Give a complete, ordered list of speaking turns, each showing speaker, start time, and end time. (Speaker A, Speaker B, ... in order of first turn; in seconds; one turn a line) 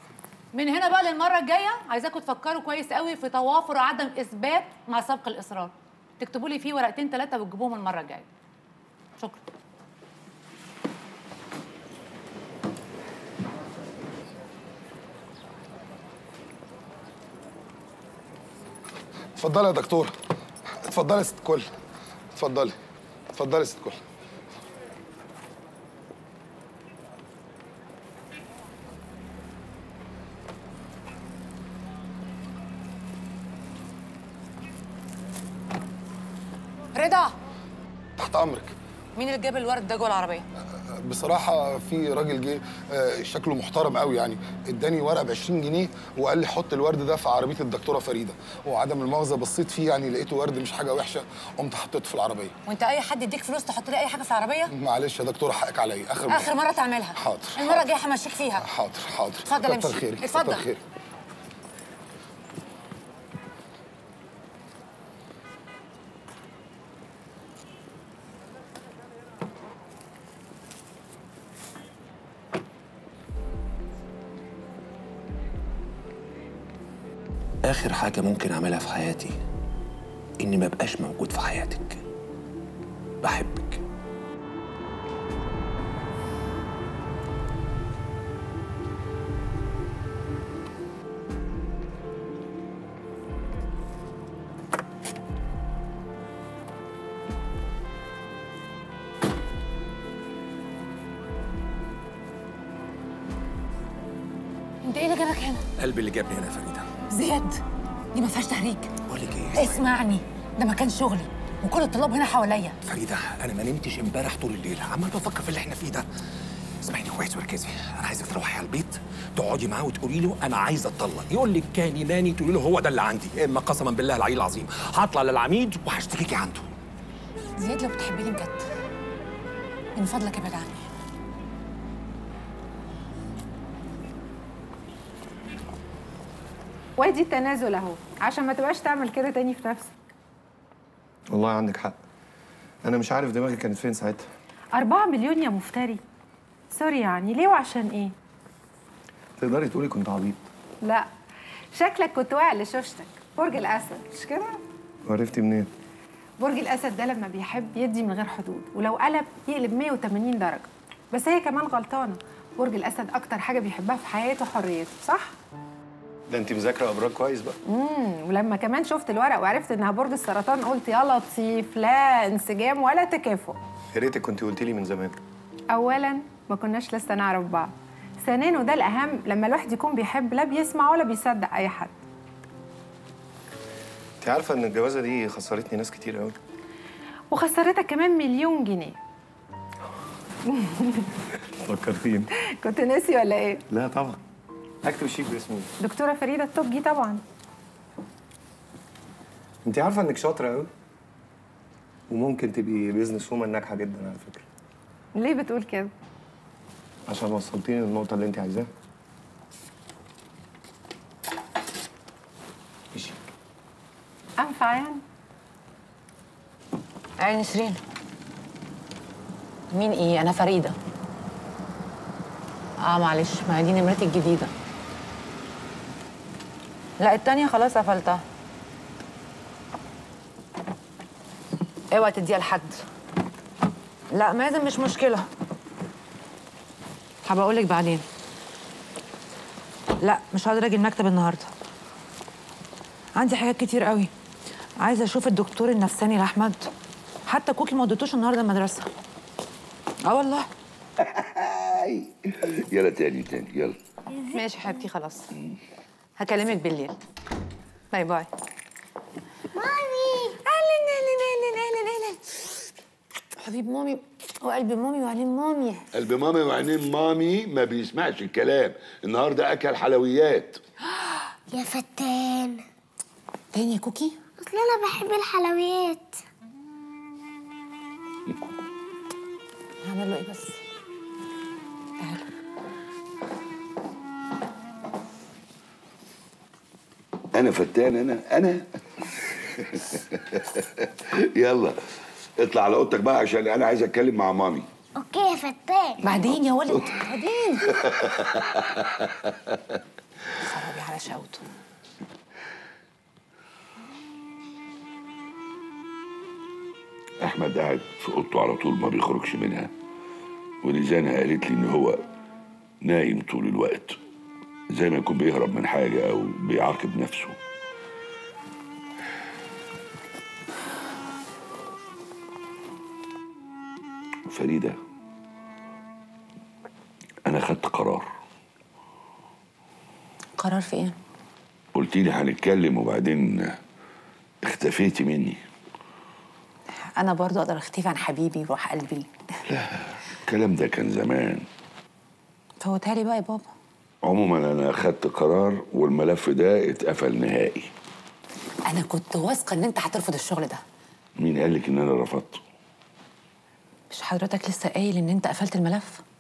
Speaker A: 0.5-8.3
Speaker A: 9.2-9.4
Speaker B: 19.4-20.1
Speaker B: 20.8-21.7
Speaker B: 22.3-22.8
Speaker B: 23.3-24.0
Speaker A: 37.0-37.4
Speaker B: 38.2-38.7
Speaker A: 39.2-40.5
Speaker B: 41.0-52.5
Speaker A: 52.7-54.7
Speaker B: 54.7-56.6
Speaker A: 56.3-58.7
Speaker B: 57.2-57.9
Speaker B: 58.6-60.8
Speaker A: 59.5-60.7
Speaker C: 77.6-79.4
Speaker C: 80.4-82.0
Speaker C: 83.2-83.8
Speaker A: 104.8-105.7
Speaker C: 105.8-106.9
Speaker A: 107.1-107.6
Speaker A: 108.1-108.9
Speaker C: 109.1-109.8
Speaker A: 109.5-112.8
Speaker C: 112.8-116.1
Speaker C: 116.8-126.7
Speaker A: 127.6-128.7
Speaker A: 130.0-130.8
Speaker D: 137.0-139.9
Speaker E: 141.3-142.0
Speaker E: 142.8-144.2
Speaker D: 144.7-146.0
Speaker D: 146.7-148.1
Speaker E: 149.4-150.4
Speaker D: 150.8-151.1
Speaker D: 151.7-154.6
Speaker E: 155.1-155.7
Speaker D: 156.4-165.4
Speaker E: 166.3-167.6
Speaker D: 167.7-173.6
Speaker E: 173.9-175.2
Speaker D: 175.7-181.9
Speaker E: 184.2-186.4
Speaker D: 187.3-189.0
Speaker D: 190.5-191.1
Speaker E: 191.6-192.3
Speaker D: 192.6-193.6
Speaker E: 193.7-194.2
Speaker E: 194.8-195.7
Speaker D: 195.8-197.2
Speaker E: 199.7-200.7
Speaker E: 202.1-204.5
Speaker D: 205.2-205.9
Speaker E: 207.1-208.7
Speaker D: 214.4-215.0
Speaker A: 217.2-217.8
Speaker A: 219.7-220.8
Speaker A: 222.8-224.5
Speaker A: 227.0-228.2
Speaker A: 231.9-232.8
Speaker A: 234.1-235.3
Speaker A: 237.3-238.1
Speaker A: 240.0-241.5
Speaker A: 243.2-244.1
Speaker A: 244.8-246.7
Speaker A: 247.3-248.9
Speaker A: 250.0-250.5
Speaker F: 251.0-253.8
Speaker A: 254.3-255.3
Speaker A: 256.2-257.0
Speaker A: 257.9-258.3
Speaker G: 259.5-260.4
Speaker A: 260.4-262.3
Speaker A: 263.4-265.9
Speaker F: 265.9-270.6
Speaker G: 271.5-272.6
Speaker A: 273.5-274.2
Speaker G: 274.4-276.2
Speaker A: 279.8-280.6
Speaker F: 287.3-288.7
Speaker F: 289.2-291.8
Speaker F: 292.4-294.7
Speaker G: 295.0-296.0
Speaker A: 296.0-297.8
Speaker F: 297.9-299.1
Speaker A: 300.4-301.4
Speaker F: 307.2-309.7
Speaker F: 310.6-312.1
Speaker F: 312.8-314.0
Speaker F: 314.7-317.4
Speaker F: 324.3-324.8
Speaker F: 327.3-328.1
Speaker A: 330.4-331.0
Speaker F: 331.8-333.6
Speaker F: 334.4-335.4
Speaker A: 337.0-339.1
Speaker F: 339.5-341.5
Speaker A: 342.6-343.5
Speaker F: 344.0-347.7
Speaker A: 348.7-350.6
Speaker F: 351.2-352.4
Speaker A: 353.9-356.0